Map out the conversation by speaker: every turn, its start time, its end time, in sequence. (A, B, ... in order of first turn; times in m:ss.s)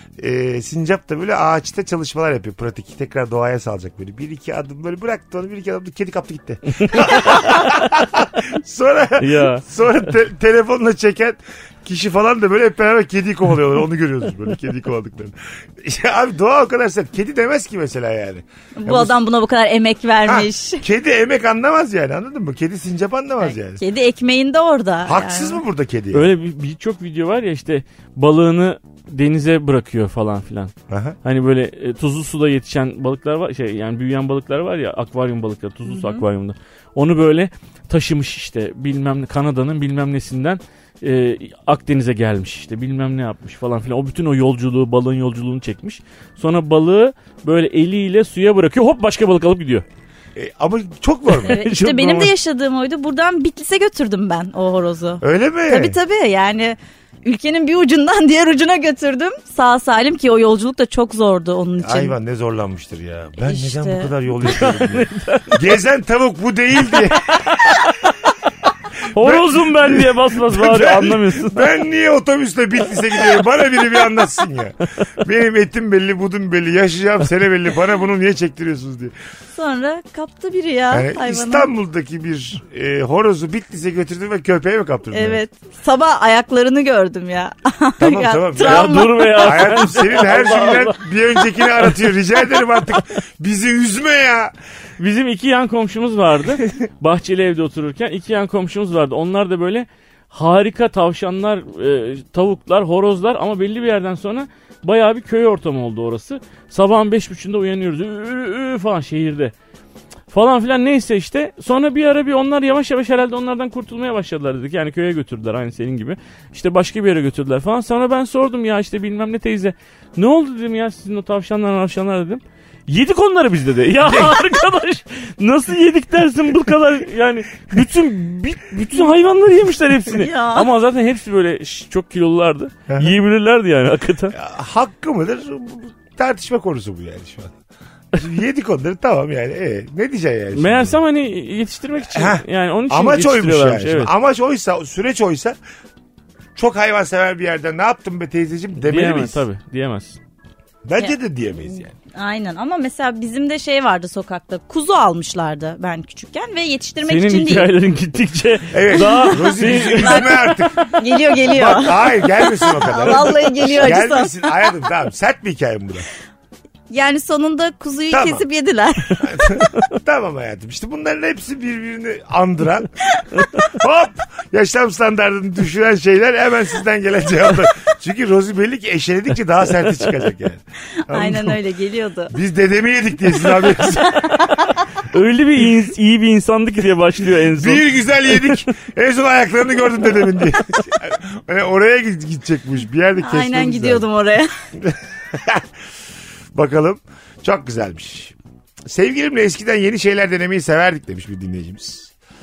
0:00.2-0:19.2 A
0:06.7-0:07.1 B
0:09.2-0:09.6 B
0:18.8-0:20.8 C
0:20.2-0:23.8 A
0:23.4-0:25.6 C
0:25.0-0:26.3 A
0:26.1-0:49.8 B
0:30.9-0:31.2 A
0:35.8-0:36.2 C
0:50.4-0:51.6 A
0:51.3-0:52.3 B
0:51.4-1:02.1 C
0:55.2-0:56.0 A
1:01.8-1:07.5 A
1:03.4-1:04.1 C
1:04.4-1:05.7 B
1:07.3-1:07.8 B
1:09.1-1:11.7 B
1:09.1-1:19.1 A
1:19.5-1:21.7 C
1:20.9-1:25.4 A
1:25.1-1:29.5 C
1:28.0-1:34.5 A
1:28.6-1:31.0 B
1:31.6-1:31.9 B
1:35.0-1:49.5 B
1:50.3-2:14.3 B
2:04.0-2:04.4 A
2:10.1-2:10.7 C
2:12.9-2:13.1 A
2:14.3-2:17.5 A
2:18.1-2:21.0 A
2:20.5-2:24.1 B
2:22.0-2:25.6 A
2:26.5-2:29.4 A
2:28.8-2:30.2 B
2:30.8-2:31.9 A
2:32.1-2:37.7 C
2:37.0-2:40.4 B
2:38.7-2:46.1 A
2:38.9-2:44.6 C
2:46.9-2:49.6 C
2:48.1-2:48.4 A
2:49.2-2:52.9 A
2:53.6-3:01.6 A
3:01.1-3:02.3 C
3:02.3-3:04.5 A
3:03.8-3:04.8 C
3:05.0-3:08.6 B
3:07.6-3:14.0 A
3:13.2-3:14.5 C
3:14.8-3:15.7 A
3:16.5-3:18.3 A
3:18.8-3:22.1 A